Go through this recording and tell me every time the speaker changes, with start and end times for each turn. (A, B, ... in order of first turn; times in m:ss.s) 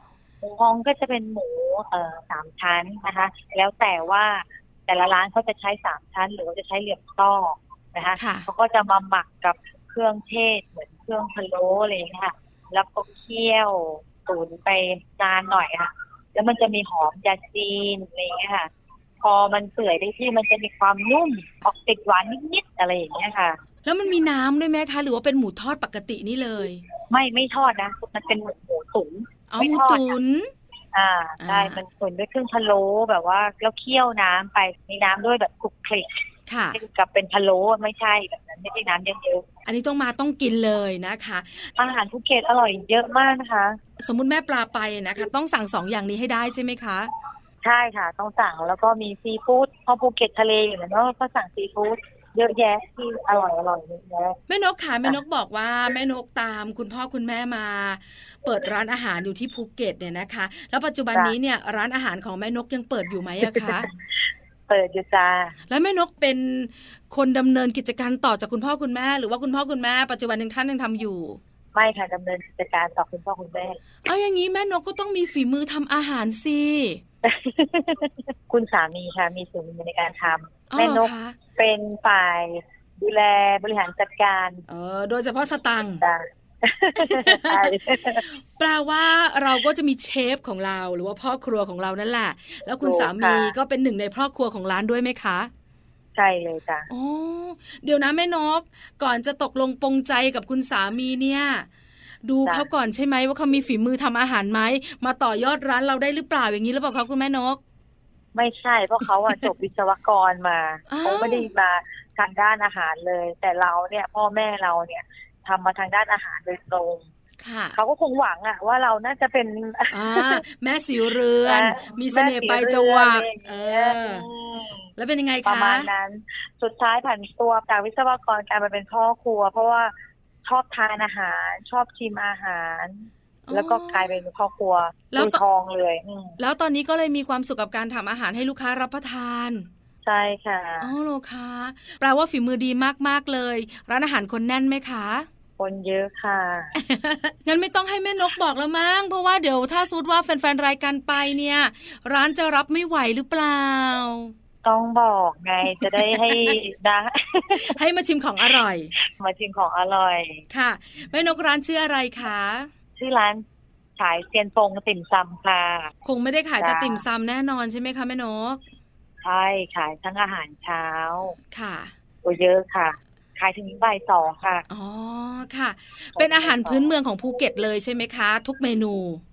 0:00.4-0:18.7 A
0:08.2-0:08.5 B
0:19.2-0:23.6 A
0:23.8-0:26.8 B
0:27.1-0:30.1 A
0:29.5-0:30.5 B
0:30.9-0:36.2 A
0:31.4-0:31.8 B
0:36.5-0:36.8 B
0:36.7-0:39.4 A
0:39.6-0:41.7 B
0:41.8-0:43.8 A
0:44.0-0:47.1 B
0:47.6-0:54.4 A
0:54.5-1:03.9 B
1:03.4-1:03.9 A
1:04.7-1:05.5 A
1:05.7-1:11.4 B
1:11.7-1:13.8 A
1:14.0-1:17.0 B
1:17.2-1:24.6 A
1:20.7-1:21.4 B
1:24.7-1:26.0 B
1:26.0-1:28.3 A
1:27.0-1:35.5 B
1:32.8-1:33.5 A
1:36.2-1:36.9 A
1:36.9-1:41.7 B
1:42.2-1:47.6 B
1:48.3-1:57.1 A
1:50.9-1:51.5 B
1:57.4-1:57.8 B
1:57.7-2:00.4 A
1:59.9-2:04.2 B
2:01.4-2:04.9 A
2:05.0-2:05.9 B
2:05.4-2:09.9 A
2:10.4-2:16.4 A
2:13.4-2:14.2 B
2:15.1-2:15.4 B
2:16.4-2:19.7 B
2:20.0-2:20.9 A
2:20.8-2:25.3 B
2:25.6-2:26.7 A
2:26.7-2:34.3 B
2:34.6-2:37.8 A
2:35.7-2:36.6 B
2:37.5-2:38.9 B
2:39.0-2:40.4 A
2:40.5-2:42.7 B
2:43.0-2:43.4 A
2:44.0-2:45.9 A
2:46.0-2:48.6 B
2:46.6-2:47.0 A
2:49.2-2:51.4 A
2:51.5-2:51.9 B
2:52.2-2:54.7 A
2:54.7-2:59.2 B
2:56.2-2:56.9 A